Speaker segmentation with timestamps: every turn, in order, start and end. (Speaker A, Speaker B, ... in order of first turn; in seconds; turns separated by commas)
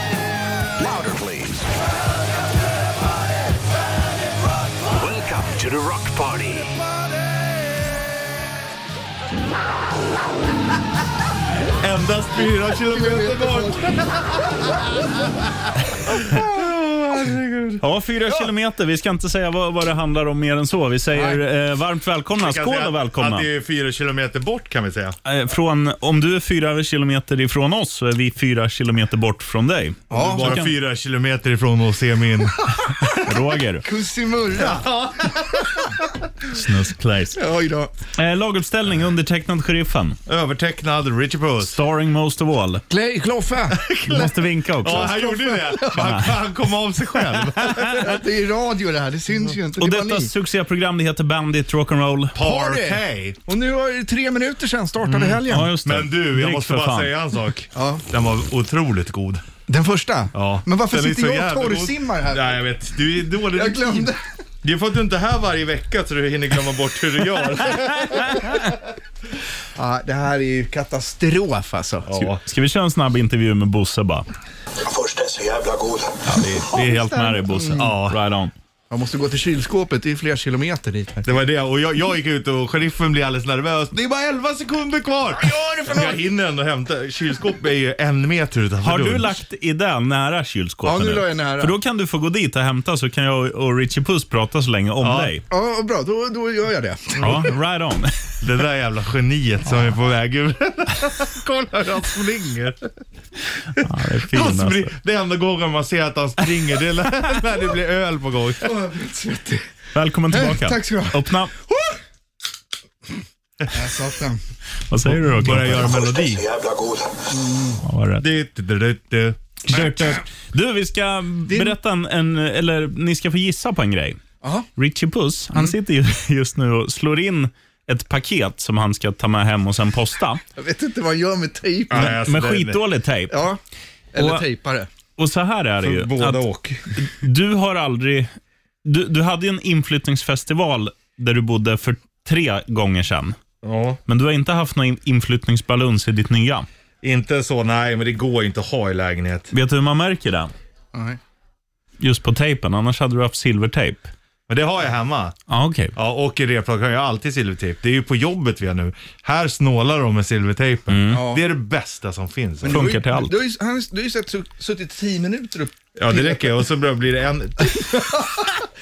Speaker A: 0.8-1.6, Speaker A: 4.9-6.8, Speaker B: 11.8-14.6, Speaker C: 12.8-13.9, Speaker B: 16.1-17.8, Speaker D: 17.8-23.5, Speaker C: 21.1-21.4, Speaker B: 22.4-25.2, Speaker D: 25.3-30.7, Speaker C: 30.1-30.6, Speaker B: 30.1-32.7, Speaker D: 33.1-33.9, Speaker C: 33.8-34.9, Speaker B: 34.5-35.9, Speaker D: 36.5-37.4, Speaker C: 37.4-37.9, Speaker D: 38.2-40.2, Speaker B: 40.3-41.8, Speaker D: 41.6-42.8, Speaker C: 42.9-46.2, Speaker D: 44.0-45.1, Speaker B: 44.8-48.1, Speaker D: 45.9-46.3, Speaker C: 47.7-50.3, Speaker D: 49.8-52.4, Speaker B: 52.4-53.4, Speaker C: 52.4-55.7, Speaker B: 55.1-59.4, Speaker D: 55.5-57.1, Speaker C: 57.8-58.0, Speaker C: 59.7-62.7, Speaker B: 60.3-64.1, Speaker C: 63.4-64.2, Speaker B: 64.6-68.6, Speaker C: 69.8-72.1, Speaker B: 72.1-72.4, Speaker D: 72.4-74.3, Speaker A: 74.9-76.1, Speaker D: 76.3-78.5, Speaker C: 76.4-77.9, Speaker B: 76.6-77.1, Speaker B: 77.7-78.2, Speaker C: 78.9-81.4, Speaker B: 81.2-89.4, Speaker C: 85.4-86.2, Speaker D: 88.8-95.4, Speaker C: 90.8-91.8, Speaker B: 95.0-95.3, Speaker C: 95.5-97.5, Speaker B: 97.2-97.5, Speaker D: 97.2-98.1, Speaker B: 98.4-102.8, Speaker D: 103.8-104.9, Speaker B: 103.8-108.7, Speaker C: 108.6-109.7, Speaker D: 110.0-111.5, Speaker C: 110.3-111.9, Speaker C: 113.7-114.4, Speaker D: 114.9-116.2, Speaker B: 115.1-116.5, Speaker C: 117.3-117.8, Speaker D: 117.8-118.3, Speaker B: 118.2-119.4, Speaker D: 119.7-124.2, Speaker C: 121.5-121.8, Speaker C: 124.4-124.7, Speaker D: 124.8-130.4, Speaker C: 130.6-132.2, Speaker B: 131.9-132.8, Speaker D: 132.0-133.4, Speaker C: 133.3-133.6, Speaker C: 134.1-134.9, Speaker D: 134.2-134.4, Speaker D: 135.2-136.4, Speaker B: 135.8-136.8, Speaker D: 137.0-138.3, Speaker D: 138.8-143.3, Speaker B: 143.6-144.0, Speaker D: 144.1-146.7, Speaker B: 147.0-149.5, Speaker D: 149.5-150.5, Speaker C: 150.9-151.2, Speaker D: 152.0-154.1, Speaker B: 154.5-155.4, Speaker D: 155.5-155.9, Speaker B: 156.0-162.9, Speaker D: 160.9-161.2, Speaker C: 161.1-161.4, Speaker C: 162.6-166.5, Speaker D: 162.7-163.4, Speaker B: 166.0-168.3, Speaker C: 167.7-168.6